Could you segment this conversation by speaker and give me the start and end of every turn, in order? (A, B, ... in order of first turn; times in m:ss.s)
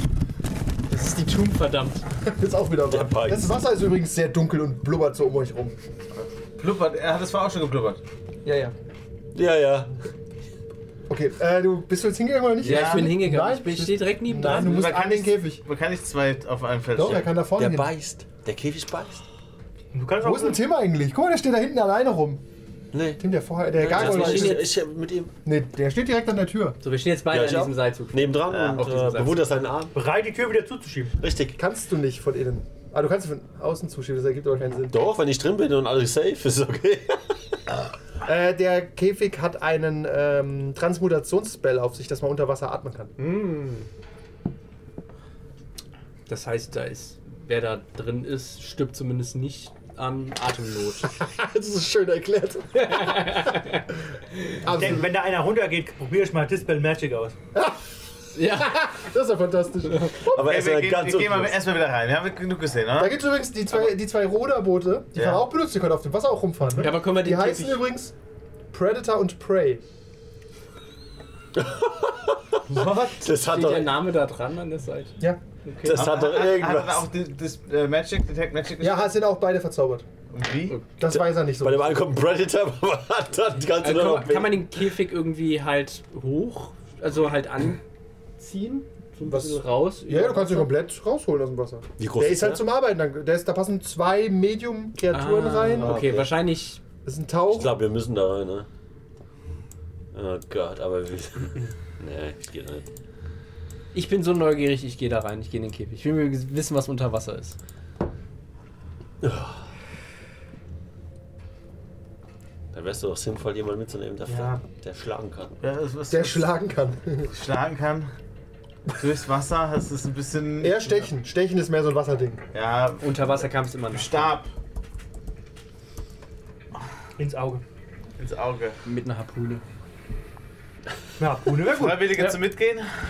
0:00.9-0:02.0 A
0:02.2-0:05.7 B
0:02.8-0:03.5 C
0:06.1-0:08.0 D
0:08.4-0:08.7 B
0:09.3-0:09.9 C
0:11.1-0:15.6 B
0:12.6-0:14.9 A
0:12.6-0:13.1 D
0:14.4-0:17.3 D
0:17.0-0:17.9 B
0:17.0-0:19.2 C
0:19.9-0:20.6 E
0:20.2-0:22.4 B
0:22.9-0:23.2 C
0:23.2-0:24.7 B
0:23.8-0:24.7 A
0:23.8-0:25.3 C
0:25.4-0:26.8 B
0:26.8-0:29.5 A
0:27.3-0:30.0 C
0:28.5-0:28.9 D
0:29.9-0:31.2 E
0:31.2-0:31.6 C
0:31.6-0:35.0 B
0:34.9-0:37.6 C
0:38.2-0:43.1 B
0:43.2-0:43.9 A
0:46.3-0:51.2 A
0:51.2-0:53.4 B
0:52.7-0:54.6 A
0:54.6-0:55.2 B
0:54.7-0:57.4 E
0:57.5-0:57.8 B
0:58.3-0:58.8 A
0:58.4-1:00.5 B
1:00.3-1:01.6 C
1:00.3-1:03.2 D
1:03.0-1:08.1 B
1:05.1-1:05.4 D
1:06.7-1:07.8 A
1:08.7-1:09.8 B
1:11.5-1:14.0 C
1:12.7-1:13.2 E
1:13.3-1:16.1 A
1:15.8-1:17.0 C
1:15.9-1:19.1 D
1:18.8-1:20.0 B
1:20.3-1:20.8 D
1:21.0-1:21.9 B
1:21.0-1:24.8 C
1:23.7-1:27.8 A
1:28.4-1:30.7 A
1:29.2-1:36.0 B
1:32.0-1:32.7 C
1:35.1-1:36.8 A
1:35.7-1:36.4 C
1:37.0-1:37.7 B
1:37.5-1:38.7 C
1:40.1-1:42.8 C
1:43.9-1:47.6 A
1:49.2-1:49.6 C
1:52.7-1:55.5 C
1:54.3-1:54.6 E
1:55.6-1:56.6 D
1:56.1-1:57.3 B
1:57.3-1:58.1 D
1:59.0-2:01.1 D
2:00.6-2:02.4 B
2:02.5-2:04.5 D
2:03.0-2:04.3 A
2:07.2-2:07.6 E
2:08.2-2:08.8 D
2:08.8-2:09.6 A
2:11.2-2:12.4 E
2:11.6-2:12.9 D